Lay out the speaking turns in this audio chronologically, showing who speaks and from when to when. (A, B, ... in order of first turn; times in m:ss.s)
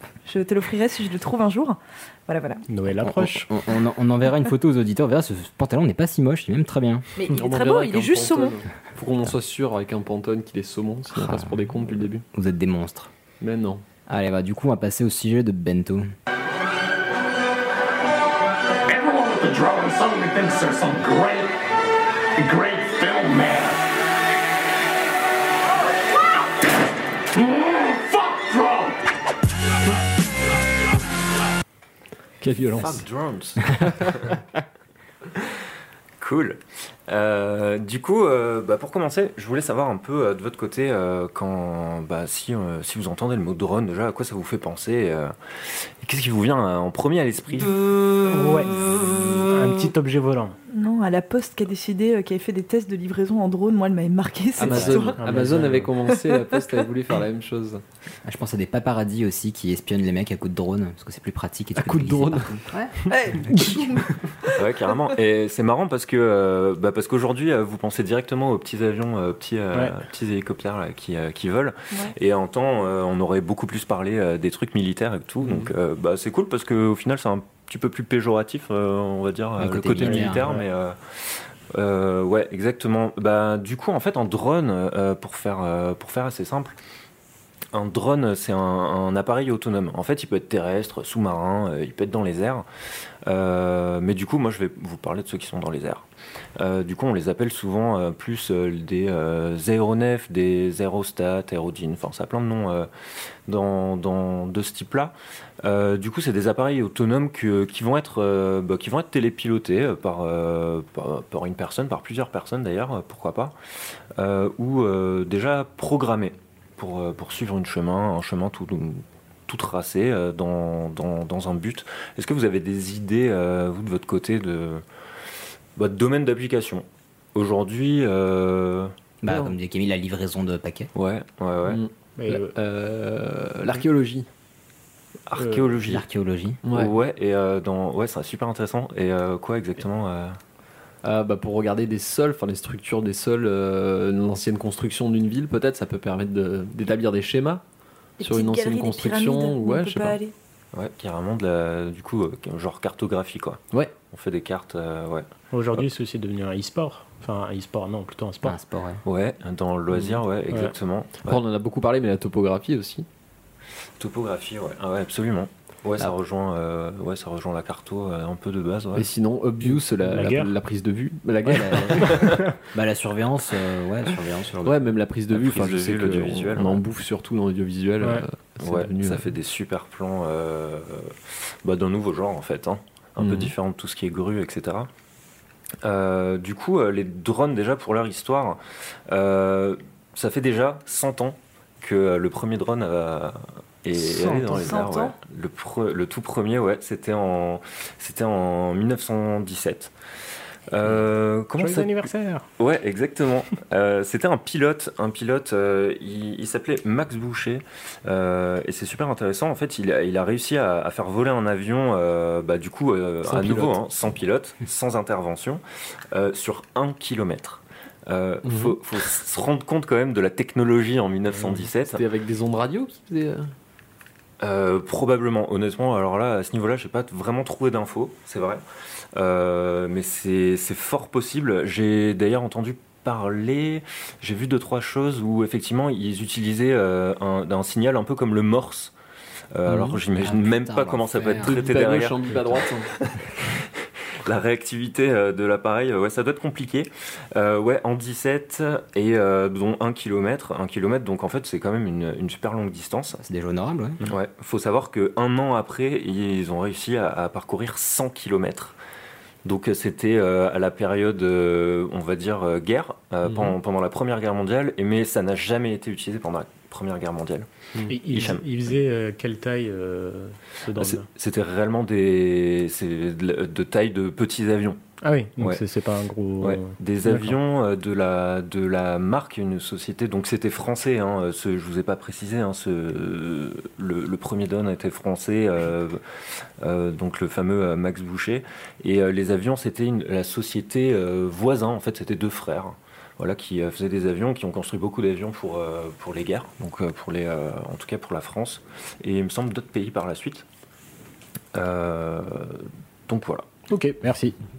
0:00.3-0:02.6 A
0:02.7-0:03.5 B
0:03.0-0:07.1 C
0:07.2-0:08.6 A
0:07.3-0:12.2 D
0:11.1-0:11.7 C
0:12.3-0:13.1 C
0:13.4-0:13.8 D
0:14.1-0:16.1 C
0:18.9-0:21.5 E
0:22.4-0:23.8 E
0:27.3-0:29.0 E
0:32.4-0:33.0 D
0:32.7-0:34.4 F
0:33.8-0:34.1 D
0:36.2-0:47.7 F
0:48.3-0:50.6 B
0:50.7-0:55.2 A
0:54.6-0:57.8 D
0:54.7-0:55.1 C
0:55.2-0:55.9 B
0:58.2-1:03.8 C
1:01.8-1:02.5 D
1:03.1-1:04.6 A
1:04.6-1:21.2 F
1:15.4-1:15.7 D
1:19.6-1:20.6 C
1:20.0-1:20.6 D
1:21.7-1:26.8 F
1:27.7-1:32.6 F
1:33.2-1:36.0 F
1:36.6-1:42.9 F
1:43.5-1:53.5 F
1:54.2-2:04.8 F
2:05.8-2:08.9 F
2:09.2-2:10.9 C
2:09.3-2:09.5 D
2:11.0-2:11.8 F
2:11.7-2:14.3 D
2:12.2-2:12.5 B
2:15.3-2:16.0 F
2:15.4-2:15.6 B
2:15.8-2:16.6 C
2:16.6-2:16.9 D
2:16.7-2:20.4 F
2:21.0-2:27.6 D
2:28.2-2:30.3 A
2:28.2-2:30.2 D
2:30.7-2:35.9 F
2:35.5-2:38.6 B
2:38.4-2:39.0 C
2:39.0-2:41.4 F
2:39.9-2:40.2 D
2:41.2-2:43.1 D
2:44.0-2:49.1 F
2:49.0-2:52.3 D
2:50.0-2:50.5 B
2:51.4-2:54.8 C
2:54.6-2:59.3 D
2:55.3-2:56.8 F
2:58.6-3:04.9 F
3:03.2-3:03.5 D
3:05.8-3:19.9 F
3:14.0-3:15.2 A
3:20.7-3:42.0 F
3:21.6-3:22.4 B
3:33.2-3:33.8 D
3:38.4-3:38.8 D
3:41.8-3:43.5 D
3:44.4-3:48.6 F
3:49.1-3:58.9 F
3:59.5-4:02.3 F
3:59.7-4:00.0 D
4:00.2-4:01.7 C
4:01.4-4:02.9 D
4:03.0-4:03.6 F
4:04.2-4:13.2 F
4:13.2-4:14.0 C
4:14.0-4:18.8 F
4:19.4-4:28.8 F
4:23.2-4:23.6 D
4:27.9-4:31.1 B
4:30.8-4:34.8 F
4:35.0-4:37.4 B
4:35.4-4:35.6 F
4:36.4-4:46.0 F
4:46.6-5:00.4 F
5:01.6-5:03.5 F
5:03.7-5:04.4 B